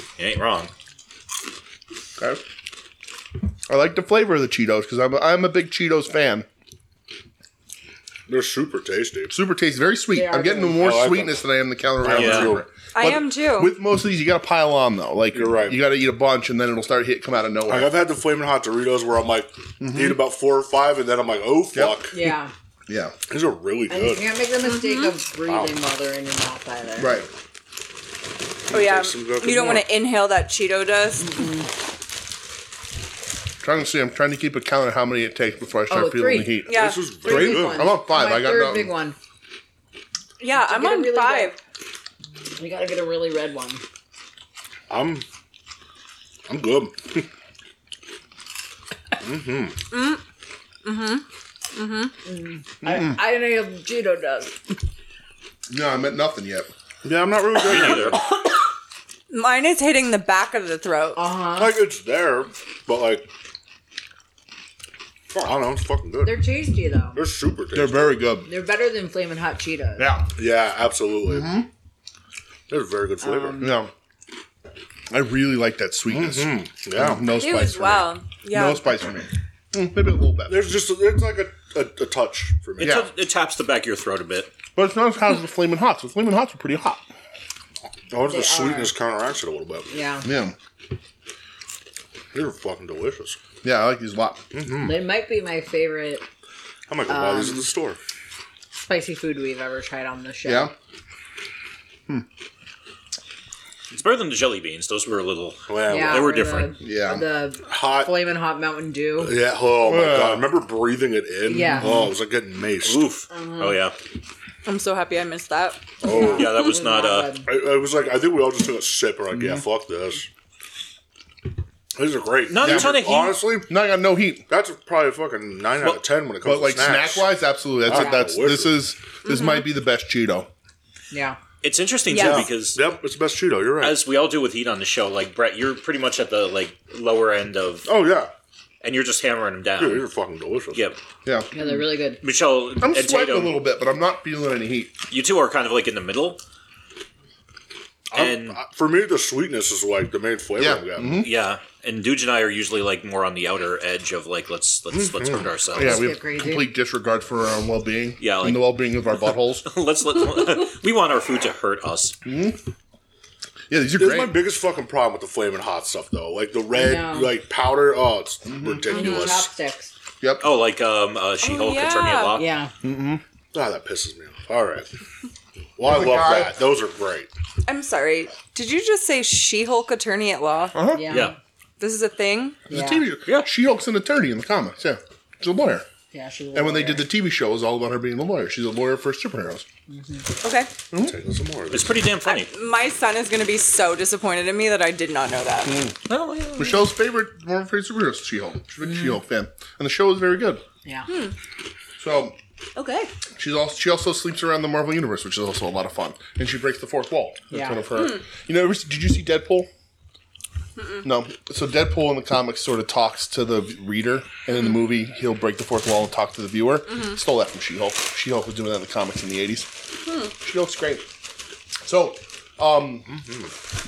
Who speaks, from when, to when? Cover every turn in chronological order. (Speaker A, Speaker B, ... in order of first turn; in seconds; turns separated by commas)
Speaker A: 0.2-0.7, Speaker B: 3.7-6.5, Speaker C: 8.3-9.3, Speaker B: 9.3-17.9, Speaker D: 10.1-10.8, Speaker C: 10.8-11.4, Speaker C: 12.0-12.7, Speaker A: 12.1-12.6, Speaker E: 12.9-13.7, Speaker C: 15.3-15.8, Speaker C: 17.7-22.1, Speaker B: 19.8-20.2, Speaker B: 21.7-22.3, Speaker D: 22.1-22.5, Speaker B: 22.9-23.1, Speaker C: 23.3-24.3, Speaker D: 23.9-27.1, Speaker E: 24.6-25.1, Speaker C: 25.4-25.7, Speaker B: 27.0-27.3, Speaker C: 28.7-29.9, Speaker E: 28.7-31.5, Speaker D: 31.2-31.7, Speaker B: 33.6-38.9, Speaker D: 35.9-36.6, Speaker E: 36.6-37.6, Speaker C: 36.7-37.9, Speaker D: 37.2-39.2, Speaker E: 40.4-41.6, Speaker D: 40.5-41.5, Speaker D: 42.6-43.8, Speaker C: 44.9-45.2, Speaker C: 46.5-47.3, Speaker C: 49.2-49.8, Speaker E: 49.9-50.2, Speaker E: 50.8-52.1, Speaker D: 52.2-54.8, Speaker B: 52.8-53.2, Speaker B: 55.7-56.7, Speaker C: 57.0-58.2, Speaker A: 57.6-58.2, Speaker E: 59.3-61.2, Speaker D: 61.1-61.8, Speaker C: 61.5-63.3, Speaker C: 65.3-66.4, Speaker D: 66.2-67.2, Speaker C: 67.1-68.2, Speaker B: 67.7-68.5, Speaker D: 68.5-70.1, Speaker B: 70.0-70.3, Speaker C: 70.4-71.5, Speaker B: 71.2-71.7, Speaker C: 72.7-73.7, Speaker D: 73.2-73.8, Speaker B: 73.6-73.9, Speaker B: 75.1-80.7, Speaker C: 76.1-77.3, Speaker E: 77.3-78.8, Speaker C: 80.5-83.1, Speaker B: 82.8-83.1, Speaker A: 82.8-84.5, Speaker B: 84.8-87.0, Speaker C: 88.1-89.9, Speaker D: 88.2-88.9, Speaker D: 89.9-90.3, Speaker B: 90.2-90.5, Speaker C: 92.3-93.4, Speaker B: 93.6-94.5, Speaker C: 94.5-95.0, Speaker D: 94.7-96.2, Speaker C: 96.9-98.0, Speaker D: 97.1-97.7, Speaker D: 98.7-100.7, Speaker B: 100.4-100.7, Speaker A: 103.9-106.7, Speaker C: 105.7-106.4, Speaker D: 105.9-109.3, Speaker B: 106.8-107.2, Speaker C: 107.7-108.1, Speaker C: 109.2-113.0, Speaker B: 109.8-110.6, Speaker D: 111.4-112.1, Speaker A: 112.8-114.0, Speaker D: 113.3-113.8, Speaker E: 114.6-116.0, Speaker C: 116.0-116.6, Speaker D: 116.0-117.5, Speaker A: 116.1-117.3, Speaker C: 117.4-120.3, Speaker B: 119.3-119.6, Speaker C: 121.9-123.7, Speaker A: 122.5-123.5, Speaker B: 122.6-123.0, Speaker B: 123.7-124.4, Speaker C: 124.5-127.3, Speaker B: 126.4-130.5, Speaker C: 127.8-128.8, Speaker D: 127.9-128.2, Speaker E: 129.2-129.6, Speaker D: 131.1-131.4, Speaker A: 131.6-132.8, Speaker E: 132.1-132.5, Speaker C: 132.1-134.0, Speaker A: 133.8-137.9, Speaker C: 137.8-138.3, Speaker A: 138.8-140.1, Speaker C: 139.8-140.8, Speaker A: 140.7-141.0, Speaker B: 141.2-141.6, Speaker D: 141.5-142.2, Speaker A: 142.2-143.6, Speaker B: 142.8-144.9, Speaker A: 145.1-146.4, Speaker C: 148.1-151.2, Speaker A: 148.1-148.6, Speaker B: 150.6-151.3, Speaker A: 151.2-156.1, Speaker C: 154.9-155.5, Speaker B: 155.7-159.7, Speaker D: 155.8-156.7, Speaker A: 158.2-162.2, Speaker B: 162.2-162.6, Speaker B: 163.7-164.4, Speaker C: 163.9-169.5, Speaker D: 166.7-167.3, Speaker B: 168.4-168.9, Speaker D: 168.9-169.9, Speaker B: 170.2-170.4, Speaker A: 170.4-172.5, Speaker E: 171.4-172.4, Speaker D: 172.3-172.7, Speaker B: 172.8-173.2, Speaker C: 173.5-174.9, Speaker C: 175.8-177.3, Speaker B: 175.8-176.6, Speaker E: 177.7-180.8, Speaker B: 180.7-181.3, Speaker D: 180.9-181.3, Speaker A: 181.1-181.3, Speaker E: 181.8-182.7, Speaker B: 182.7-185.8, Speaker D: 182.7-183.1, Speaker D: 186.1-187.1, Speaker B: 186.5-189.7, Speaker D: 189.9-190.2, Speaker E: 190.4-190.8, Speaker C: 190.9-192.1, Speaker A: 191.7-192.5, Speaker E: 192.2-195.8, Speaker B: 195.6-195.9, Speaker A: 196.1-196.9, Speaker B: 196.5-200.6, Speaker E: 201.1-201.3, Speaker B: 202.0-202.4, Speaker E: 202.8-203.1, Speaker B: 203.3-209.7, Speaker D: 207.5-207.9, Speaker E: 207.9-208.2, Speaker B: 211.0-219.7, Speaker E: 220.1-220.3, Speaker B: 220.4-221.1, Speaker B: 221.8-223.1, Speaker C: 223.1-223.5